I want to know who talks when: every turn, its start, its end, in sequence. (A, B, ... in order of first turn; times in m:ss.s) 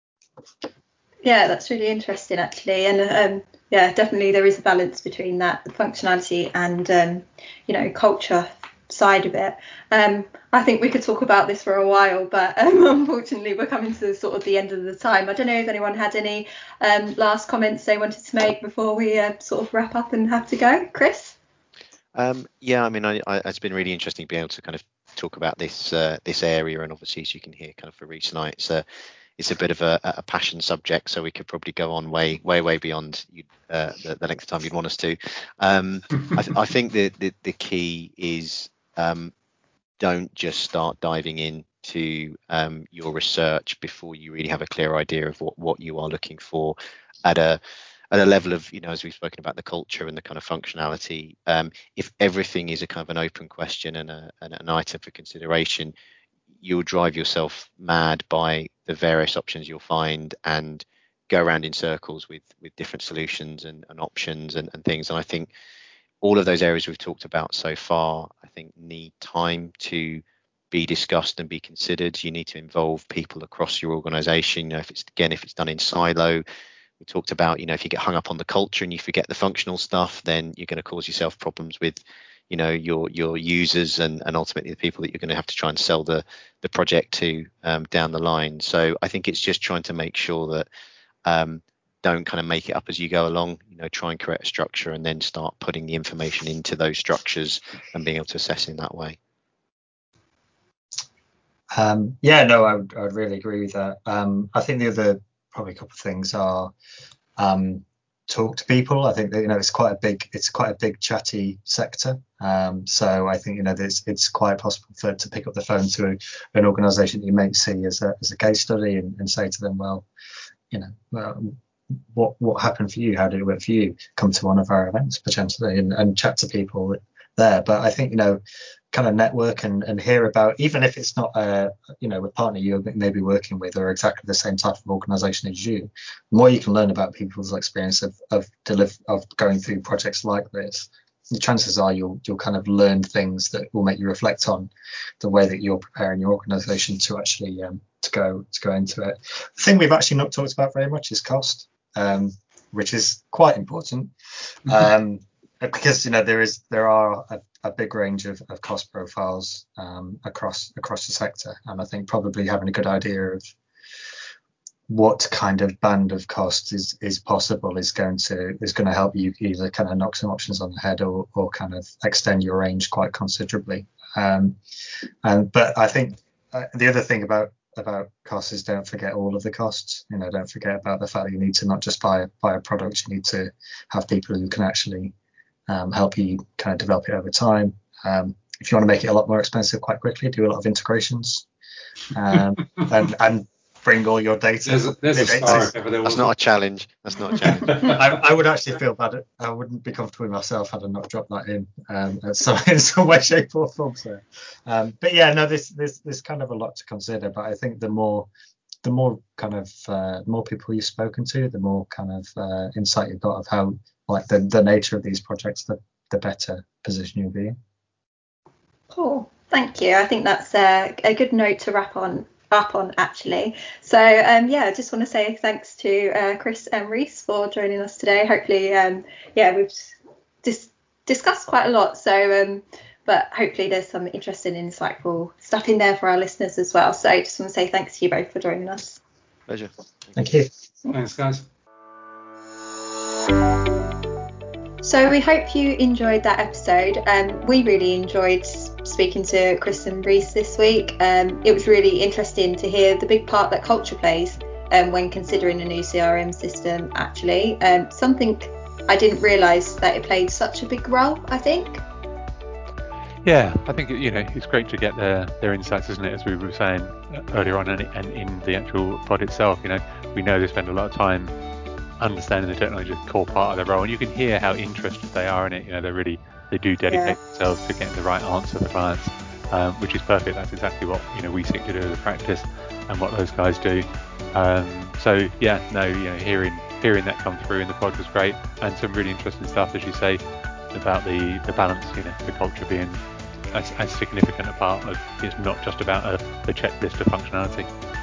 0:01.2-0:21.4 A
0:22.2-0:28.8 B
0:29.4-0:39.3 B
0:40.0-0:47.6 B
0:48.1-0:55.9 B
0:56.6-1:05.5 B
1:06.2-1:16.4 B
1:17.0-1:30.7 B
1:31.2-1:39.2 B
1:41.7-1:46.7 C
1:47.4-2:00.0 C
2:00.7-2:01.6 C
2:02.1-2:08.4 C
2:08.9-2:34.1 C
2:34.6-2:43.5 C
2:44.9-2:54.6 C
2:55.2-3:05.1 C
3:05.7-3:11.4 C
3:12.1-3:15.8 C
3:14.6-3:16.3 D
3:16.0-3:17.8 B
3:17.4-3:18.1 D
3:17.8-3:28.3 C
3:28.8-3:37.6 C
3:38.9-3:59.0 A
3:59.5-4:00.2 B
4:00.2-4:00.5 C
4:00.8-4:01.4 D
4:04.8-4:21.8 A
4:23.2-4:31.3 E
4:32.0-4:50.2 E
4:50.7-4:53.0 E
4:53.5-4:57.7 E